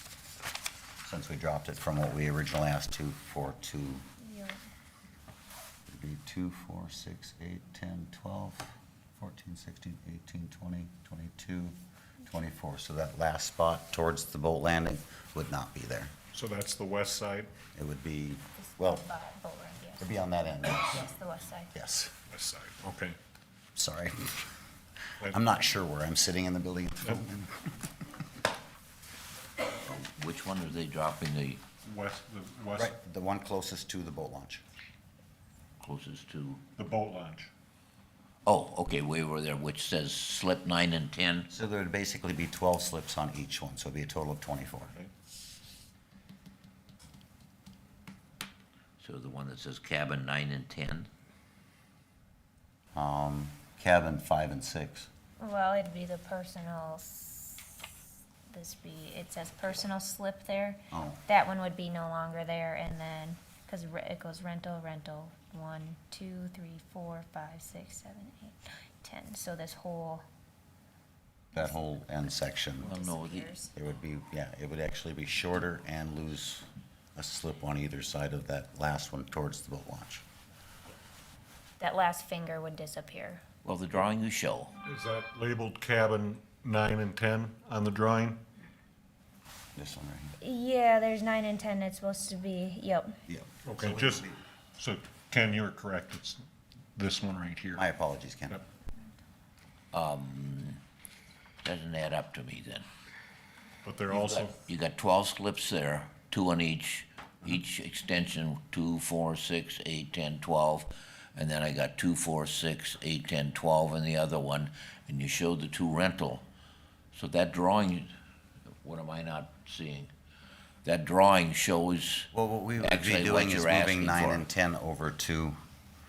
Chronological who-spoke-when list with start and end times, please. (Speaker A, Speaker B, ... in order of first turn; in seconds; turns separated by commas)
Speaker A: 1.0-4.0, Speaker B: 4.2-4.6, Speaker A: 5.9-16.1, Speaker C: 16.3-17.5, Speaker A: 17.7-19.1, Speaker B: 18.6-20.2, Speaker A: 20.0-21.1, Speaker B: 20.7-21.7, Speaker A: 21.7-22.1, Speaker C: 22.3-23.1, Speaker A: 23.8-24.5, Speaker A: 25.3-27.7, Speaker D: 29.8-31.6, Speaker C: 31.8-33.0, Speaker A: 32.8-34.6, Speaker D: 35.8-36.6, Speaker C: 36.8-37.5, Speaker D: 38.4-41.5, Speaker A: 41.5-44.9, Speaker D: 49.0-51.1, Speaker A: 52.9-55.1, Speaker B: 55.4-57.8, Speaker B: 58.5-70.2, Speaker A: 60.9-61.2, Speaker A: 71.5-72.9, Speaker B: 72.8-73.7, Speaker D: 72.8-73.6, Speaker A: 73.7-80.2, Speaker B: 81.8-83.4, Speaker D: 83.6-84.7, Speaker C: 84.8-88.4, Speaker A: 89.8-90.3, Speaker B: 90.4-93.2, Speaker A: 93.3-94.4, Speaker C: 93.6-94.2, Speaker C: 94.8-96.4, Speaker C: 97.0-97.8, Speaker A: 97.8-98.6, Speaker D: 99.9-100.8, Speaker D: 101.6-102.9, Speaker C: 103.8-104.5, Speaker D: 104.1-116.4, Speaker D: 117.1-118.1, Speaker D: 118.8-120.1, Speaker D: 120.8-124.5, Speaker A: 122.3-125.6